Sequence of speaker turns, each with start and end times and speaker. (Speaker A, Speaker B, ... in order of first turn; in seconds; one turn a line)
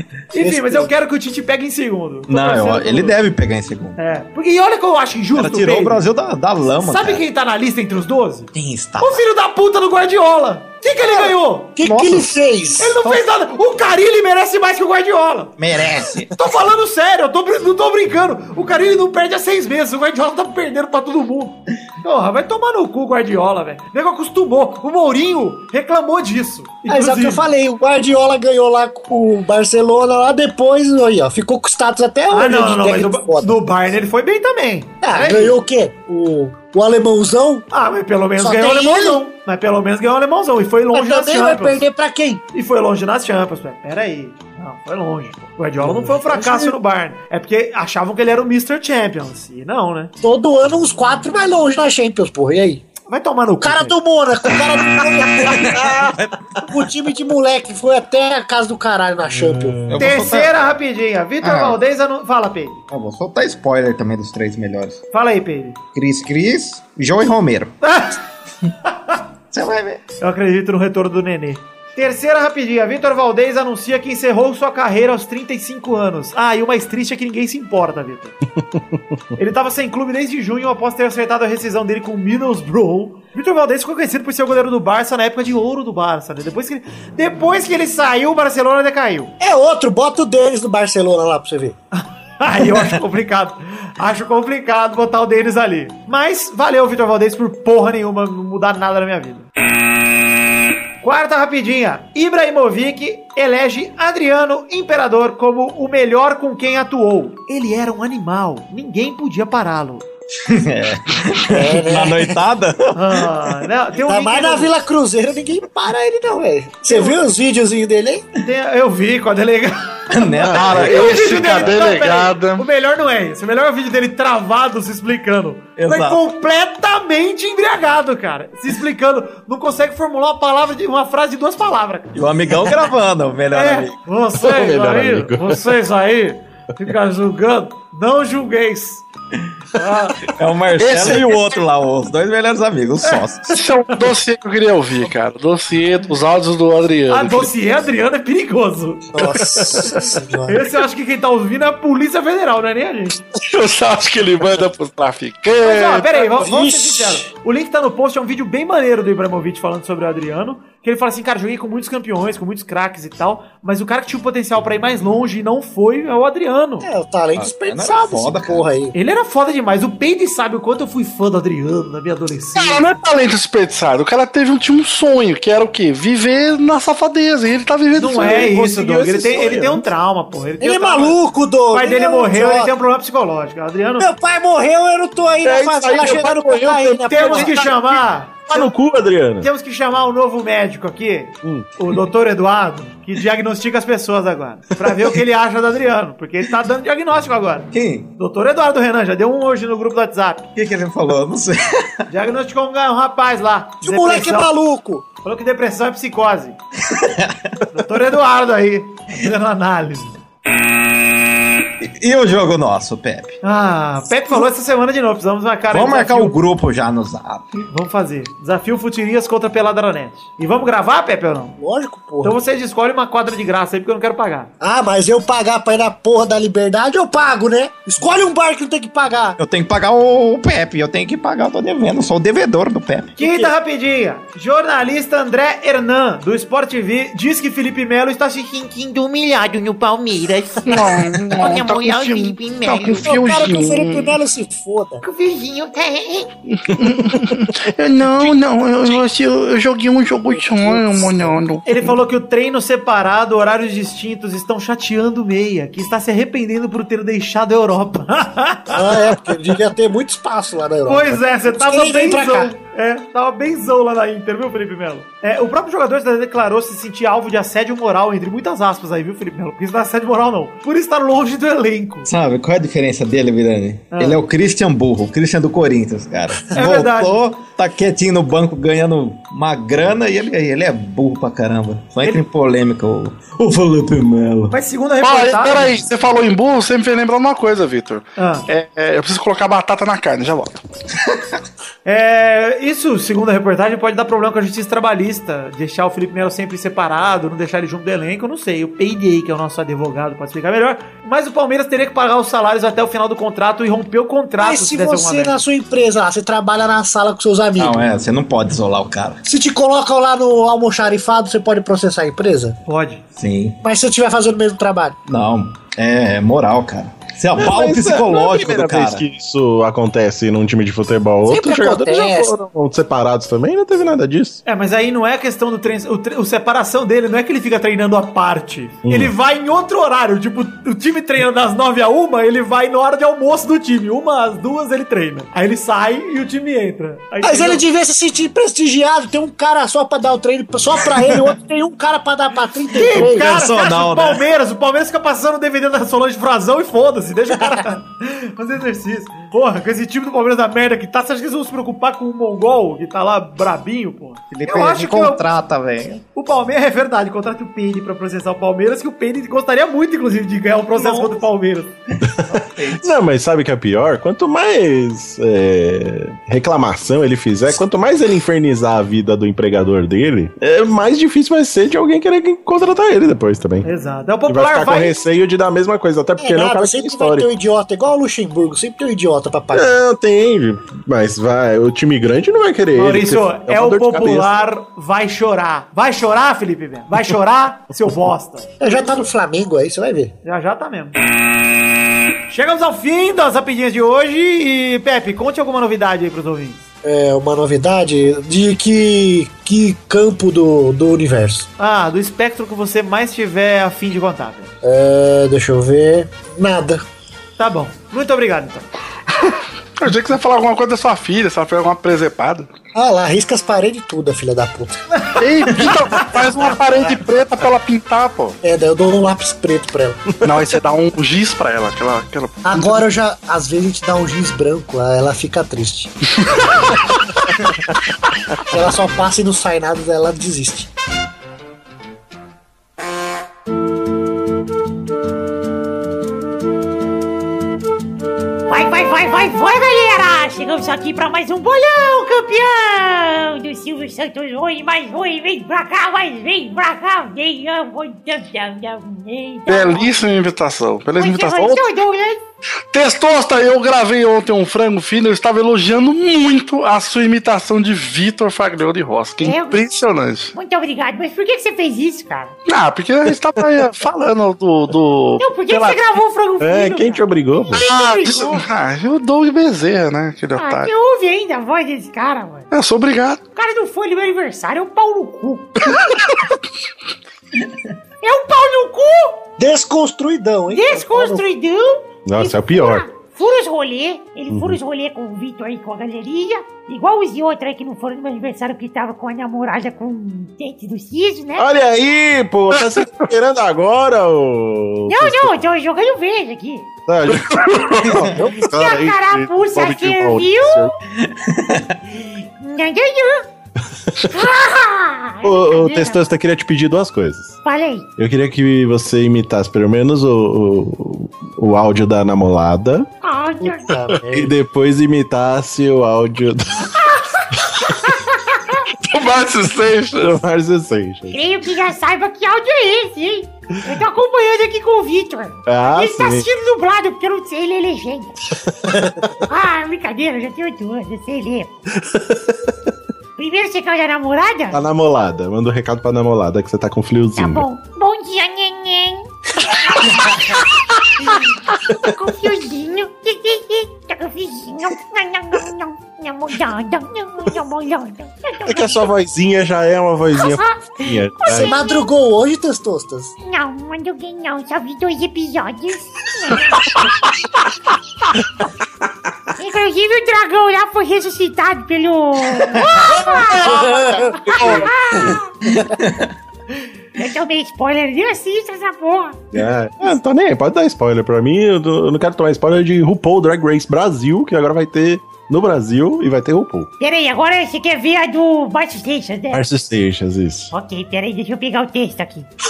Speaker A: 0.3-3.2
Speaker B: 0.4-0.9
Speaker C: 2.3-4.0
Speaker A: 4.0-6.0
Speaker C: 5.4-7.2
Speaker A: 6.8-11.7
Speaker C: 8.5-9.2
Speaker B: 11.1-13.0
Speaker C: 11.8-12.4
Speaker A: 12.8-15.6
Speaker C: 15.6-16.3
Speaker A: 16.3-27.4
Speaker B: 26.9-33.6
Speaker A: 32.3-35.6
Speaker B: 35.0-37.6
Speaker A: 37.7-41.8
Speaker B: 38.4-39.2
Speaker B: 40.9-42.4
Speaker A: 42.5-50.1
Speaker B: 45.8-46.7
Speaker B: 50.2-52.8
Speaker A: 53.1-54.0
Speaker B: 53.6-56.0
Speaker C: 55.4-56.3
Speaker B: 56.7-59.8
Speaker D: 59.3-60.0
Speaker C: 59.9-60.5
Speaker A: 60.0-62.8
Speaker C: 61.4-61.8
Speaker C: 62.9-65.0
Speaker A: 65.1-65.8
Speaker C: 65.9-67.7
Speaker A: 67.8-68.2
Speaker C: 69.5-70.0
Speaker A: 70.2-78.3
Speaker A: 79.4-89.3
Speaker B: 89.4-91.8
Speaker A: 92.0-99.5
Speaker A: 101.0-110.0
Speaker C: 110.5-113.5
Speaker B: 111.5-112.4
Speaker A: 113.0-114.7
Speaker B: 114.1-118.2
Speaker A: 116.9-117.2
Speaker A: 118.4-132.1
Speaker C: 120.1-121.9
Speaker E: 120.5-122.7
Speaker C: 125.8-126.2
Speaker C: 132.1-133.9
Speaker A: 133.5-139.0
Speaker D: 134.4-135.6
Speaker A: 139.8-140.2
Speaker C: 140.4-143.6
Speaker E: 140.8-141.5
Speaker E: 143.5-147.5
Speaker A: 147.1-149.1
Speaker B: 149.1-150.7
Speaker A: 150.5-153.2
Speaker E: 153.4-156.2
Speaker A: 155.6-166.9
Speaker B: 156.3-157.3
Speaker B: 166.8-168.9
Speaker C: 167.4-168.7
Speaker A: 168.9-172.8
Speaker E: 172.6-178.6
Speaker A: 177.9-181.2
Speaker D: 178.5-179.8
Speaker B: 180.6-182.7
Speaker A: 181.7-184.1
Speaker B: 184.0-187.6
Speaker D: 185.4-187.9
Speaker A: 187.1-188.7
Speaker D: 188.5-189.5
Speaker A: 189.4-200.5
Speaker C: 197.7-198.1
Speaker C: 200.6-202.1
Speaker A: 202.1-204.5
Speaker B: 203.8-205.1
Speaker A: 205.2-206.6
Speaker C: 206.9-207.5
Speaker A: 207.7-210.2
Speaker C: 211.8-213.4
Speaker A: 213.4-216.4
Speaker C: 215.7-217.6
Speaker A: 217.7-221.6
Speaker B: 221.6-222.4
Speaker A: 222.2-224.5
Speaker B: 224.6-229.4
Speaker C: 229.4-233.2
Speaker A: 233.2-238.7
Speaker F: 238.5-240.8
Speaker E: 240.7-244.2
Speaker F: 241.3-243.0
Speaker B: 243.0-245.0
Speaker F: 245.1-246.3
Speaker E: 246.6-251.9
Speaker B: 250.3-251.4
Speaker A: 251.7-259.2
Speaker B: 258.7-262.5
Speaker A: 260.9-272.1
Speaker C: 272.1-284.6
Speaker A: 273.9-274.2
Speaker A: 276.5-277.2
Speaker A: 284.5-285.9
Speaker E: 285.0-290.6
Speaker A: 288.2-288.5
Speaker A: 291.9-305.4
Speaker B: 304.4-307.9
Speaker C: 307.6-309.2
Speaker B: 309.2-312.6
Speaker A: 312.7-313.0
Speaker C: 313.2-313.6
Speaker B: 313.6-315.0
Speaker C: 315.1-319.1
Speaker D: 317.4-324.4
Speaker B: 321.2-322.3
Speaker A: 324.5-337.6
Speaker D: 328.9-329.1
Speaker B: 337.2-343.3
Speaker A: 342.7-355.2
Speaker C: 343.0-344.2
Speaker C: 354.3-356.0
Speaker A: 356.1-361.7
Speaker C: 360.8-361.2
Speaker C: 362.3-363.0
Speaker D: 362.8-373.7
Speaker A: 373.6-375.0
Speaker D: 374.3-377.3
Speaker B: 376.2-379.7
Speaker D: 379.5-384.3
Speaker A: 382.8-388.7
Speaker B: 388.6-390.1
Speaker A: 390.2-391.0
Speaker A: 392.3-396.6
Speaker B: 396.8-401.5
Speaker A: 401.6-404.5
Speaker B: 404.6-406.8
Speaker A: 407.4-408.7
Speaker E: 409.8-412.5
Speaker B: 412.8-414.8
Speaker E: 415.2-418.4
Speaker B: 418.4-420.0
Speaker E: 420.2-422.8
Speaker B: 422.4-425.9
Speaker B: 428.5-430.7
Speaker F: 438.5-450.0
Speaker E: 449.5-451.7
Speaker F: 451.0-452.2
Speaker E: 452.7-460.3
Speaker F: 459.2-459.7
Speaker F: 460.3-462.3
Speaker E: 462.5-465.8
Speaker F: 465.2-468.4
Speaker D: 466.4-467.7
Speaker E: 467.6-470.7
Speaker F: 470.4-472.5
Speaker E: 472.5-473.2
Speaker F: 473.4-475.6
Speaker F: 478.0-479.2
Speaker B: 479.4-481.2
Speaker F: 480.5-491.5
Speaker D: 482.1-482.9
Speaker D: 484.3-484.6
Speaker D: 491.4-495.3
Speaker F: 494.9-496.7
Speaker D: 496.9-500.7
Speaker F: 498.2-500.7
Speaker C: 501.0-501.8
Speaker F: 502.0-503.3
Speaker F: 504.1-506.0
Speaker D: 505.2-507.4
Speaker F: 507.4-507.9
Speaker D: 508.0-512.9
Speaker F: 513.0-513.7
Speaker B: 513.4-514.3
Speaker D: 514.1-516.8
Speaker F: 516.8-518.6
Speaker E: 518.9-520.2
Speaker D: 520.0-521.2
Speaker F: 521.1-528.1
Speaker D: 525.5-526.3
Speaker D: 528.6-529.0
Speaker F: 529.3-531.5
Speaker D: 531.9-532.3
Speaker F: 533.2-534.6
Speaker D: 534.5-537.5
Speaker F: 537.2-539.1
Speaker F: 539.7-540.2
Speaker F: 541.1-548.9
Speaker D: 548.5-551.5
Speaker F: 550.1-551.9
Speaker B: 551.3-553.1
Speaker F: 553.2-556.8
Speaker F: 559.4-565.3
Speaker D: 563.3-565.1
Speaker B: 563.6-564.1
Speaker C: 565.5-566.1
Speaker F: 567.0-569.2
Speaker D: 569.3-576.7
Speaker F: 576.8-579.4
Speaker D: 579.3-580.5
Speaker F: 580.5-582.3